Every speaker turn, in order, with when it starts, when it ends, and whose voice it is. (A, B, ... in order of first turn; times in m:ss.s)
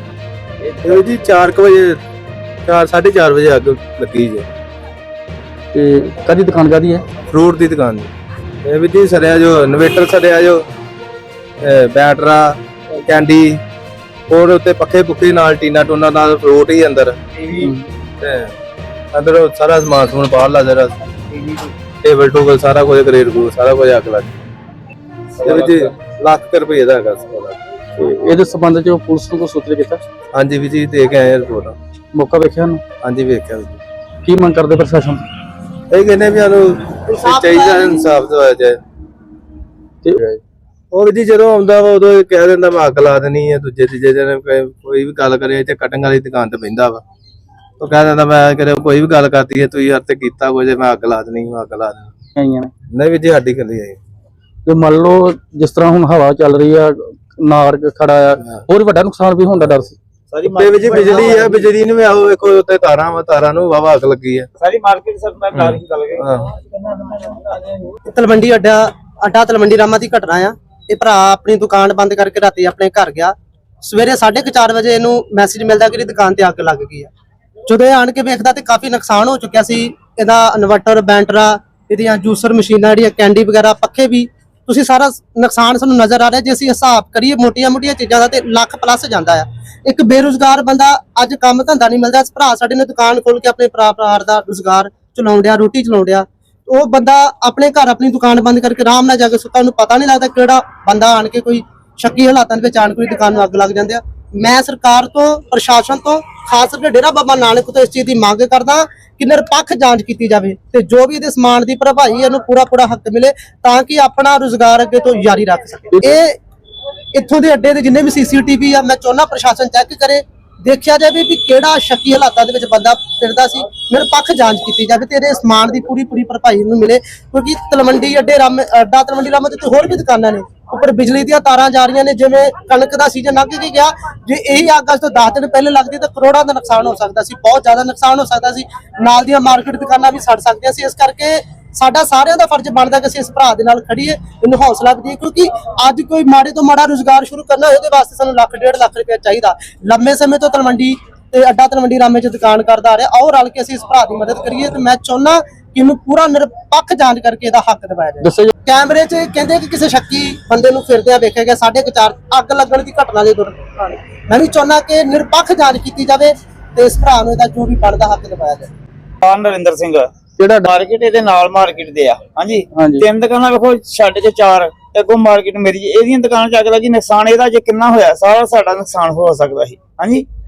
0:00.8-0:02.0 A
0:02.7-0:04.4 A
0:05.7-0:07.0 B
0:07.3-0:08.1 A
0:08.6-0:10.6 A
0:11.6-0:13.6 A
0:14.3-0:17.7 A
0:18.2-0:18.5 A
0:19.1-0:20.9 A
0:22.0-0:24.3 A
0:25.4-0:27.6 A
0:28.0-0:30.0 B
0:30.3-0:31.8 A
0:32.2-0:32.8 B
0:33.0-0:33.8 A
0:34.2-0:35.2 B
0:35.9-0:38.8 A
0:37.4-0:37.9 C
0:40.0-0:40.4 B
0:40.9-0:47.0 A
0:47.8-0:52.1 A
0:52.4-0:52.7 B
0:52.9-0:54.0 A
0:54.6-1:00.0 B
1:00.3-1:01.7 D
1:00.5-1:04.5 A
1:04.6-1:07.9 D
1:05.5-1:06.4 A
1:08.1-1:17.1 C
1:17.7-1:56.4 C
1:57.1-2:48.7 C
2:38.2-2:38.5 B
2:49.2-2:50.1 D
2:50.4-2:50.7 B
2:50.6-3:00.2 D
2:52.7-2:53.0 B